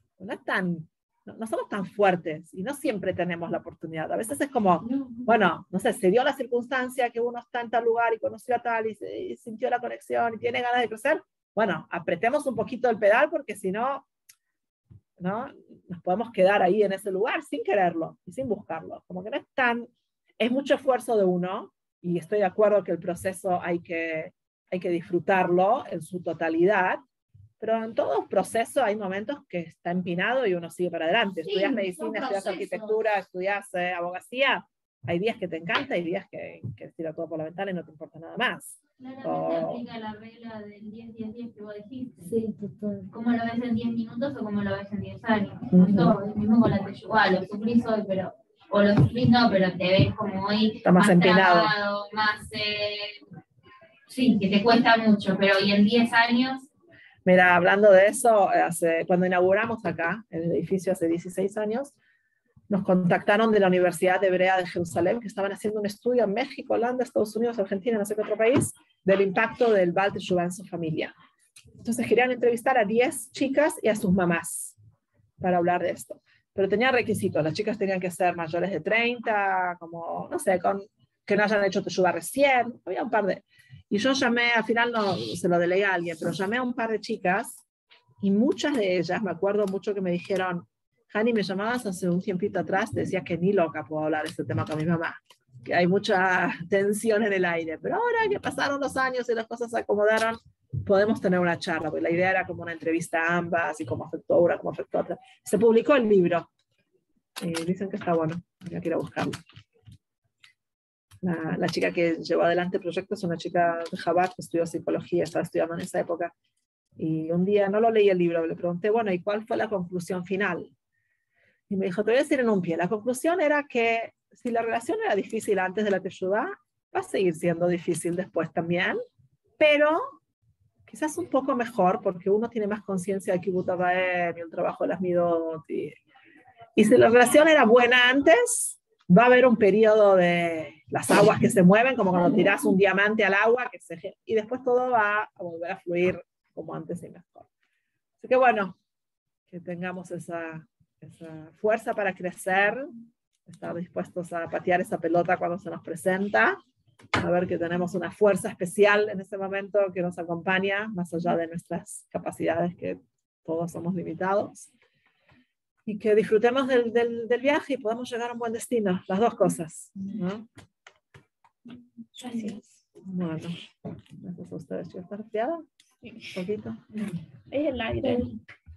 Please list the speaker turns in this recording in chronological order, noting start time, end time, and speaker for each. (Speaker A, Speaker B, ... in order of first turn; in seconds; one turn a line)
Speaker A: 0.2-14.1
Speaker B: 4.8-5.3
Speaker A: 15.2-19.9
Speaker A: 20.4-27.0
Speaker A: 27.6-39.8
Speaker B: 31.4-33.0
Speaker C: 39.0-42.3
Speaker B: 42.2-43.1
Speaker C: 43.1-53.2
Speaker A: 45.7-46.1
Speaker A: 50.8-51.7
Speaker C: 54.1-56.7
Speaker A: 57.2-61.9
Speaker A: 62.7-71.1
Speaker A: 71.8-74.8
Speaker A: 75.4-87.6
Speaker A: 88.2-106.5
Speaker A: 107.4-109.4
Speaker A: 111.2-116.3
Speaker A: 117.0-120.7
Speaker A: 121.7-129.0
Speaker A: 129.6-130.1
Speaker A: 130.9-135.9
Speaker A: 136.8-147.5
Speaker A: 148.2-148.8
Speaker A: 149.5-152.9
Speaker A: 153.5-156.6
Speaker A: 157.2-164.7
Speaker A: 165.8-170.4
Speaker B: 172.2-172.6
Speaker A: 173.0-173.5
Speaker A: 174.2-175.7
Speaker A: 176.2-176.8
Speaker A: 177.5-178.3
Speaker B: 178.0-178.3